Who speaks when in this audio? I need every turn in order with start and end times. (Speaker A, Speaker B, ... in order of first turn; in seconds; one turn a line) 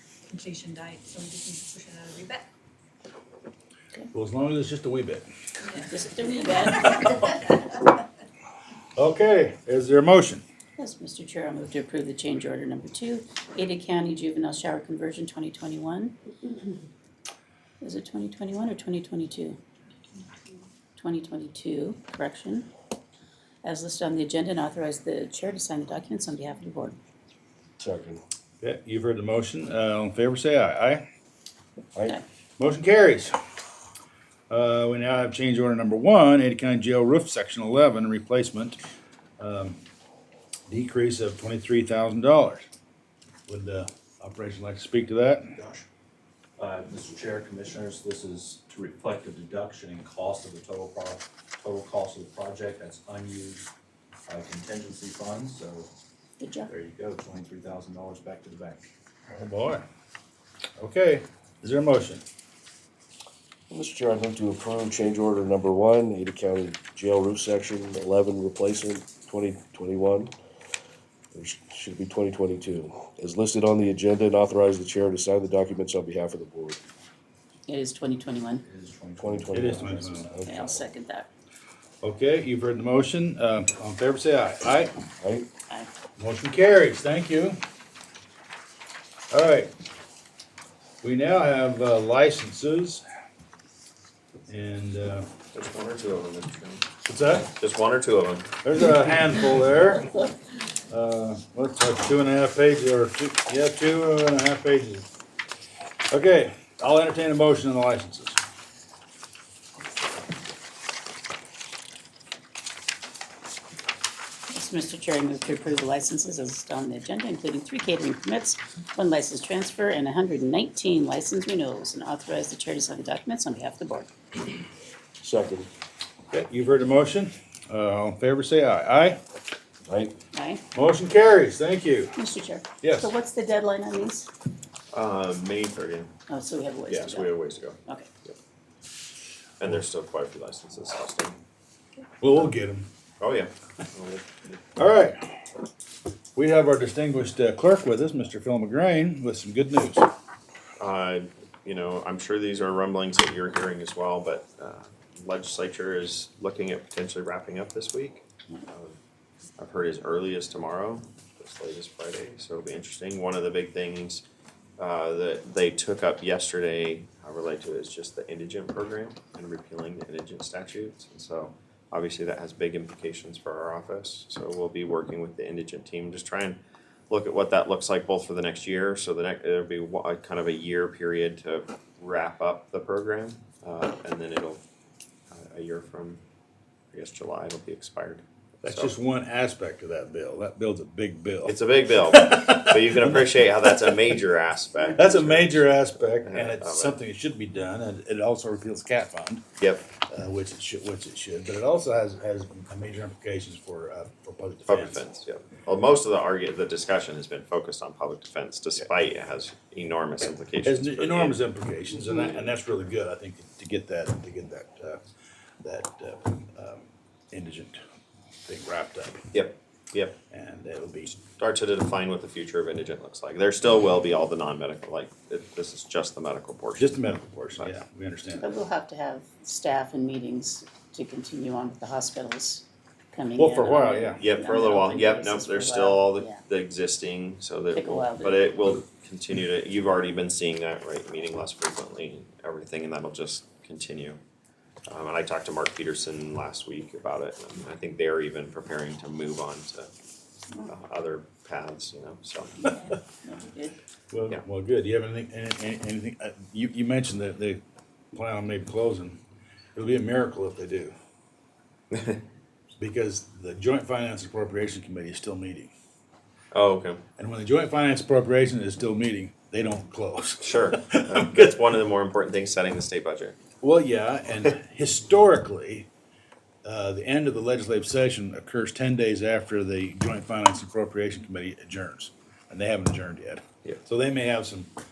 Speaker A: 0.3-2.5
Speaker B: 4.1-5.3
Speaker A: 5.6-7.6
Speaker C: 5.9-7.4
Speaker B: 9.0-10.4
Speaker C: 10.8-16.2
Speaker C: 17.8-19.6
Speaker A: 20.2-20.6
Speaker C: 21.0-22.7
Speaker C: 23.6-27.0
Speaker D: 27.8-28.2
Speaker B: 28.6-31.1
Speaker B: 32.6-33.3
Speaker B: 34.5-38.8
Speaker B: 39.4-39.8
Speaker B: 40.7-42.7
Speaker B: 43.5-45.5
Speaker E: 45.6-45.9
Speaker E: 46.6-53.7
Speaker E: 54.3-55.9
Speaker C: 56.4-56.7
Speaker E: 56.7-58.9
Speaker B: 59.3-59.9
Speaker B: 60.8-62.2
Speaker D: 63.7-70.3
Speaker D: 71.3-76.8
Speaker C: 77.7-78.6
Speaker E: 78.6-80.8
Speaker D: 79.2-79.8
Speaker B: 79.5-80.3
Speaker C: 80.5-81.3
Speaker B: 82.0-85.0
Speaker D: 85.2-85.5
Speaker B: 86.2-87.6
Speaker B: 89.3-89.7
Speaker B: 91.0-93.0
Speaker B: 94.5-95.3
Speaker F: 95.5-96.9
Speaker B: 97.0-97.5
Speaker F: 97.5-98.5
Speaker B: 98.6-100.2
Speaker B: 100.9-105.1
Speaker B: 106.1-108.4
Speaker C: 114.5-124.1
Speaker D: 125.2-125.7
Speaker B: 126.3-129.2
Speaker D: 129.9-130.1
Speaker C: 130.3-130.6
Speaker B: 130.7-132.2
Speaker C: 132.2-134.3
Speaker B: 132.8-133.1
Speaker F: 134.9-136.1
Speaker C: 136.3-137.3
Speaker F: 136.9-138.4
Speaker F: 139.6-141.4
Speaker B: 142.2-142.9
Speaker F: 143.2-144.6
Speaker B: 144.8-145.2
Speaker B: 146.4-150.1
Speaker F: 150.8-159.0
Speaker F: 159.6-164.2
Speaker F: 164.8-176.6
Speaker F: 177.1-184.6
Speaker F: 185.3-186.2
Speaker F: 186.9-188.9
Speaker B: 188.6-191.6
Speaker F: 191.4-197.0
Speaker B: 192.1-194.0
Speaker B: 194.9-199.4
Speaker F: 199.6-199.9
Speaker B: 200.1-205.0
Speaker F: 204.7-211.4
Speaker B: 210.6-215.0
Speaker B: 215.6-217.8
Speaker B: 218.5-219.2
Speaker F: 219.3-220.2
Speaker B: 220.3-221.2
Speaker F: 221.4-227.0
Speaker B: 226.8-228.5
Speaker C: 228.4-236.4
Speaker B: 233.4-234.2
Speaker F: 234.2-244.2
Speaker C: 237.7-238.5
Speaker F: 244.9-249.9
Speaker F: 250.7-252.7
Speaker C: 252.6-253.7
Speaker B: 254.1-257.6
Speaker B: 258.1-259.2
Speaker B: 259.8-260.9
Speaker F: 261.9-262.2
Speaker B: 262.8-265.7
Speaker F: 266.5-267.0
Speaker B: 267.2-271.5
Speaker F: 270.4-273.4
Speaker B: 273.6-275.9
Speaker B: 276.6-284.7